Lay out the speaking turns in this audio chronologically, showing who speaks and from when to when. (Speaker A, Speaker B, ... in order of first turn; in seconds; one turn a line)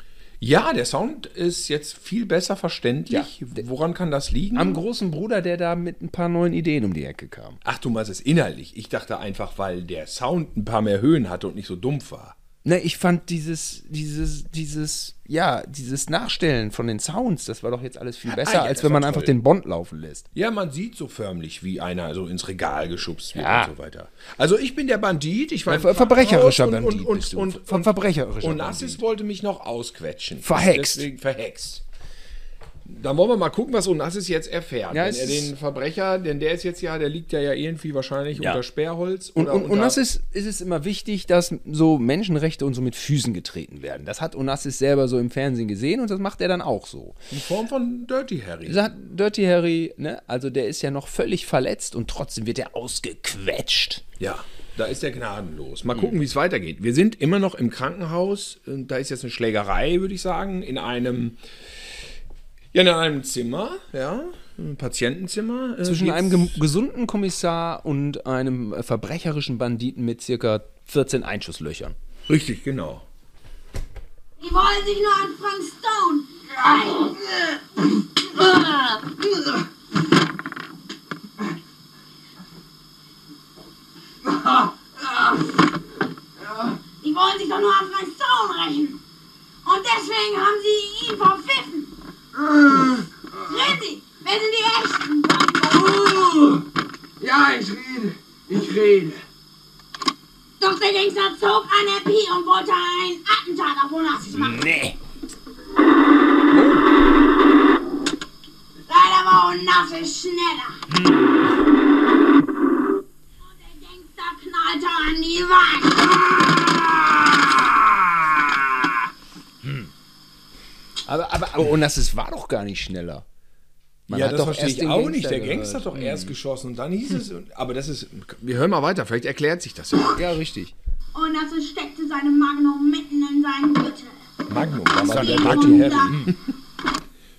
Speaker A: 0.4-4.8
Speaker B: 4.5-7.6
Speaker A: 7.6-12.3
Speaker B: 12.6-20.3
Speaker A: 18.2-19.3
Speaker A: 20.3-31.8
Speaker B: 23.3-23.7
Speaker B: 25.7-29.0
Speaker B: 30.4-31.1
Speaker A: 32.9-40.0
Speaker B: 34.9-35.5
Speaker B: 38.4-38.6
Speaker B: 39.3-47.2
Speaker A: 47.3-48.9
Speaker B: 48.6-54.0
Speaker A: 54.2-61.4
Speaker A: 62.7-66.6
Speaker B: 65.8-72.0
Speaker A: 72.3-73.0
Speaker C: 74.4-77.1
Speaker D: 76.6-77.2
Speaker D: 84.2-85.4
Speaker D: 86.4-86.8
Speaker C: 87.0-89.0
Speaker C: 89.6-91.9
Speaker D: 92.3-93.7
Speaker C: 93.5-96.1
Speaker D: 95.7-96.6
Speaker D: 97.2-99.2
Speaker C: 100.6-104.6
Speaker B: 104.3-105.0
Speaker A: 106.5-106.8
Speaker C: 108.9-110.8
Speaker C: 113.4-116.2
Speaker D: 116.4-116.8
Speaker B: 119.6-119.9
Speaker B: 121.0-123.2
Speaker B: 124.1-126.3
Speaker A: 124.1-130.3
Speaker B: 130.1-130.7
Speaker C: 131.1-134.2
Speaker A: 134.5-136.3
Speaker B: 135.0-136.3
Speaker C: 135.0-136.2